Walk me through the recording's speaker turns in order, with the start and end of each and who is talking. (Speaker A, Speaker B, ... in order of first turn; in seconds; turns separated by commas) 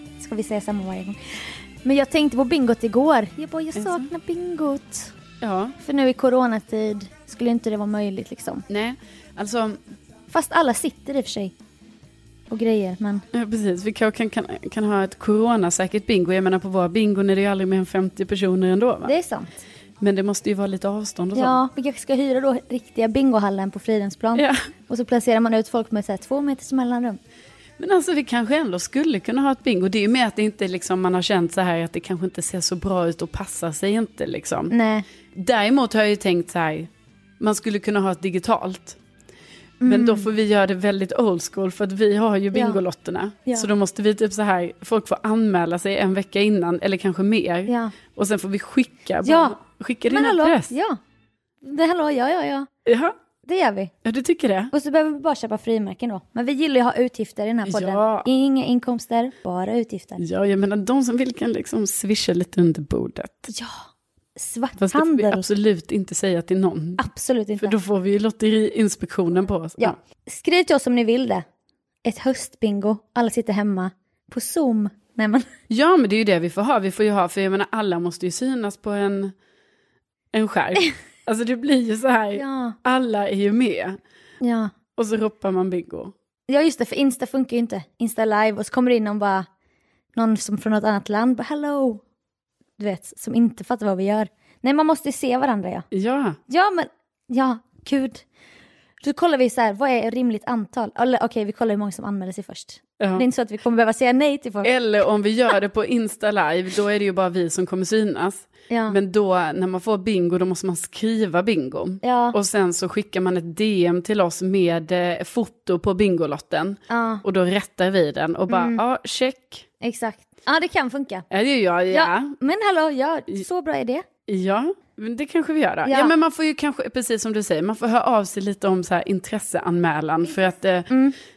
Speaker A: 0.2-1.2, Speaker A: 1.8-5.2, Speaker B: 3.8-4.1, Speaker B: 5.4-5.8, Speaker A: 5.8-8.7, Speaker B: 8.7-9.8, Speaker A: 10.3-11.5, Speaker A: 12.5-13.2, Speaker B: 13.3-19.1, Speaker A: 19.1-19.5, Speaker B: 20.0-21.6, Speaker A: 21.4-27.2, Speaker B: 27.8-34.7, Speaker A: 34.7-35.1, Speaker B: 35.3-39.0, Speaker A: 39.8-40.3, Speaker B: 39.9-50.7, Speaker A: 42.5-42.8, Speaker A: 47.7-48.0, Speaker A: 49.2-49.6, Speaker A: 50.1-51.0, Speaker A: 51.6-52.7, Speaker B: 52.9-53.1, Speaker A: 53.5-53.9, Speaker B: 54.0-54.7, Speaker A: 54.7-60.2, Speaker B: 57.6-58.3, Speaker B: 60.2-63.5, Speaker A: 63.5-65.5, Speaker B: 64.8-67.0, Speaker A: 67.0-67.8, Speaker B: 67.6-70.0, Speaker A: 69.8-71.5, Speaker A: 72.0-75.5, Speaker B: 75.7-79.3, Speaker B: 80.3-84.0, Speaker A: 82.3-82.8, Speaker A: 84.4-84.7, Speaker B: 85.0-86.1, Speaker A: 86.5-89.5, Speaker A: 90.2-92.0, Speaker A: 92.8-95.9, Speaker B: 95.9-96.4, Speaker A: 96.5-98.2, Speaker A: 99.0-104.7, Speaker B: 104.6-119.7, Speaker A: 108.7-109.0, Speaker A: 112.0-112.4, Speaker A: 116.9-117.2, Speaker A: 118.5-118.8, Speaker A: 119.8-121.3, Speaker B: 121.3-122.3, Speaker A: 121.9-124.1, Speaker B: 124.3-130.9, Speaker A: 125.8-126.1, Speaker A: 130.9-131.2